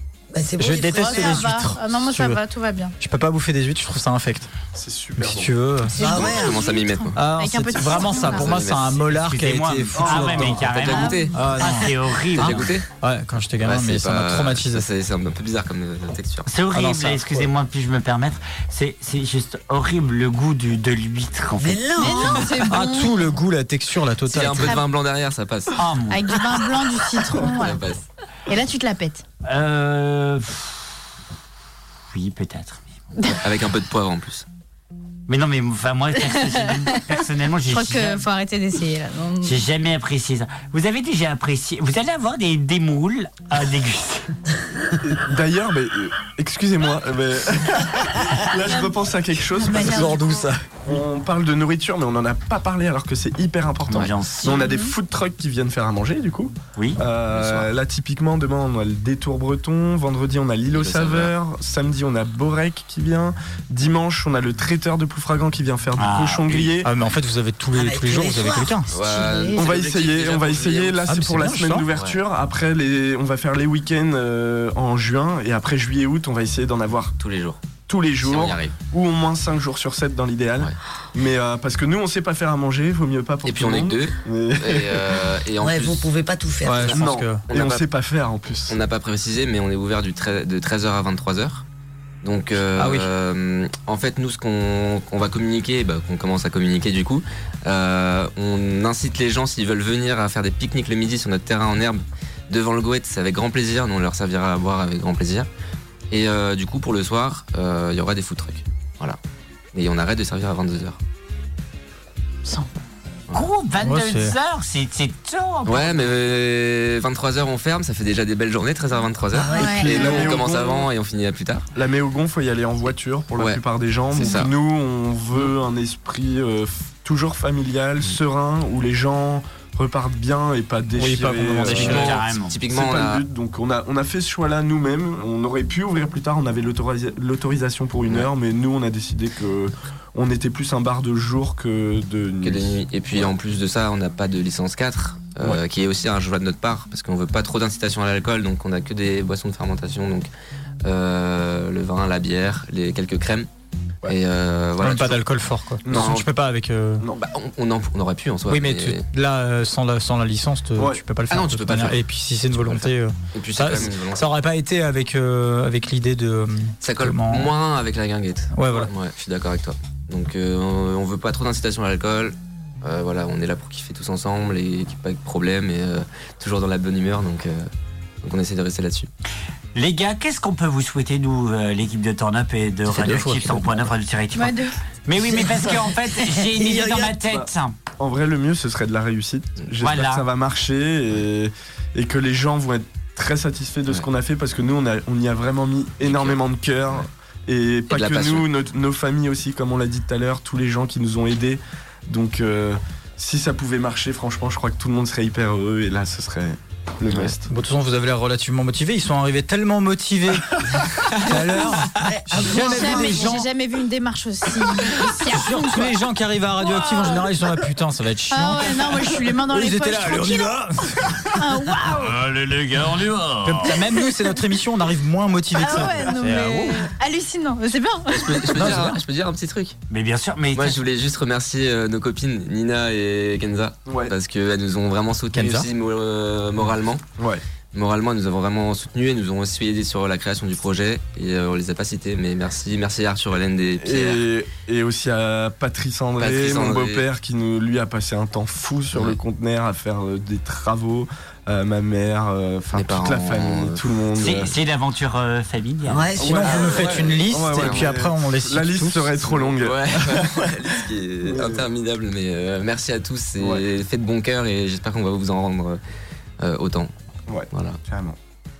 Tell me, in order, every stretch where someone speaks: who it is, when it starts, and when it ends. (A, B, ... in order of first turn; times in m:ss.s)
0:00.3-0:01.6 A
0:00.6-0:02.4 B
0:00.9-0:02.9 C
0:03.0-0:04.5 B
0:04.7-0:05.5 D
0:05.2-0:06.0 B
0:05.9-0:08.6 C
0:06.0-0:06.6 A
0:06.0-0:07.2 E
0:07.1-0:10.8 B
0:07.7-0:09.0 E
0:09.1-0:12.7 F
0:09.9-0:10.7 D
0:10.3-0:11.4 E
0:10.8-0:11.9 C
0:11.3-0:14.8 B
0:12.3-0:12.9 E
0:13.6-0:16.5 E
0:16.4-0:22.2 F
0:16.7-0:17.5 B
0:21.6-0:22.6 A
0:21.9-0:23.4 C
0:22.7-0:24.8 B
0:24.2-0:25.8 E
0:24.4-0:24.8 C
0:25.8-0:26.4 F
0:26.1-0:27.8 C
0:27.4-0:28.0 E
0:28.5-0:29.2 C
0:29.5-0:30.9 F
0:32.1-0:33.4 F
0:33.4-0:34.4 E
0:35.3-0:38.2 F
0:36.2-0:39.6 C
0:39.4-0:44.4 F
0:45.0-0:50.2 D
0:48.6-0:50.5 C
0:49.8-0:50.8 B
0:50.8-1:06.9 D
0:53.9-0:54.7 F
0:54.5-0:54.9 C
0:56.8-0:57.0 F
0:57.3-0:57.7 E
1:00.7-1:01.3 E
1:06.0-1:06.7 F
1:06.8-1:08.9 B
1:07.7-1:08.8 A
1:08.9-1:11.0 E
1:09.0-1:09.6 C
1:09.5-1:17.1 D
1:11.1-1:11.9 B
1:11.9-1:12.2 E
1:17.2-1:17.6 E
1:17.9-1:25.3 D
1:18.2-1:18.8 E
1:23.4-1:26.1 E
1:25.6-1:27.0 A
1:26.6-1:27.4 B
1:26.8-1:27.8 E
1:26.9-1:28.8 D
1:28.7-1:31.6 E
1:32.2-1:45.5 E
1:32.8-1:33.1 B
1:46.1-1:49.2 E
1:49.7-1:51.0 E
1:53.3-1:56.1 F
1:53.8-1:54.3 B
1:55.6-2:01.7 E
1:59.3-2:00.3 A
1:59.5-2:00.0 C
1:59.6-2:00.9 D
2:01.7-2:12.1 D
2:04.1-2:04.5 E
2:04.2-2:04.4 C
2:11.0-2:12.2 B
2:11.7-2:13.2 E
2:11.8-2:12.6 F
2:12.7-2:23.3 D
2:22.4-2:30.3 E
2:30.8-2:33.5 E
2:34.0-2:35.2 E
2:34.8-2:37.0 B
2:35.8-2:36.2 D
2:35.9-2:36.3 E
2:37.1-2:39.0 E
2:38.5-2:47.5 B
2:40.8-2:41.0 D
2:41.3-2:42.0 E
2:42.6-2:44.3 E
2:46.8-2:57.7 E
2:48.5-2:48.9 B
2:58.2-2:59.1 E
2:59.7-3:07.7 F
3:02.8-3:03.9 B
3:04.3-3:04.8 C
3:05.2-3:07.2 A
3:07.3-3:27.5 D
3:09.8-3:10.3 F
3:16.0-3:16.4 E
3:17.9-3:18.5 E
3:27.5-3:33.5 B
3:32.0-3:33.4 A
3:32.4-3:36.0 C
3:35.2-3:41.5 B
3:36.6-3:37.3 C
3:38.3-3:40.6 C
3:41.3-3:42.2 C
3:42.0-3:43.7 F
3:43.4-3:46.9 B
3:43.7-3:44.5 C
3:45.5-3:48.8 C
3:48.1-3:49.8 E
3:48.6-3:49.0 B
3:49.9-3:50.8 F
3:50.5-3:57.0 E
3:53.9-3:54.1 D
3:55.3-3:55.7 B
3:57.2-3:57.4 D
3:57.7-4:04.2 E
4:03.8-4:14.5 D
4:06.2-4:07.0 E
4:12.7-4:13.8 E
4:14.2-4:16.0 F
4:15.8-4:16.8 A
4:16.2-4:21.7 D
4:16.2-4:19.1 B
4:16.4-4:17.9 E
4:19.2-4:25.8 E
4:23.4-4:23.6 D
4:26.4-4:26.9 E
4:27.3-4:28.2 D
4:27.5-4:27.8 E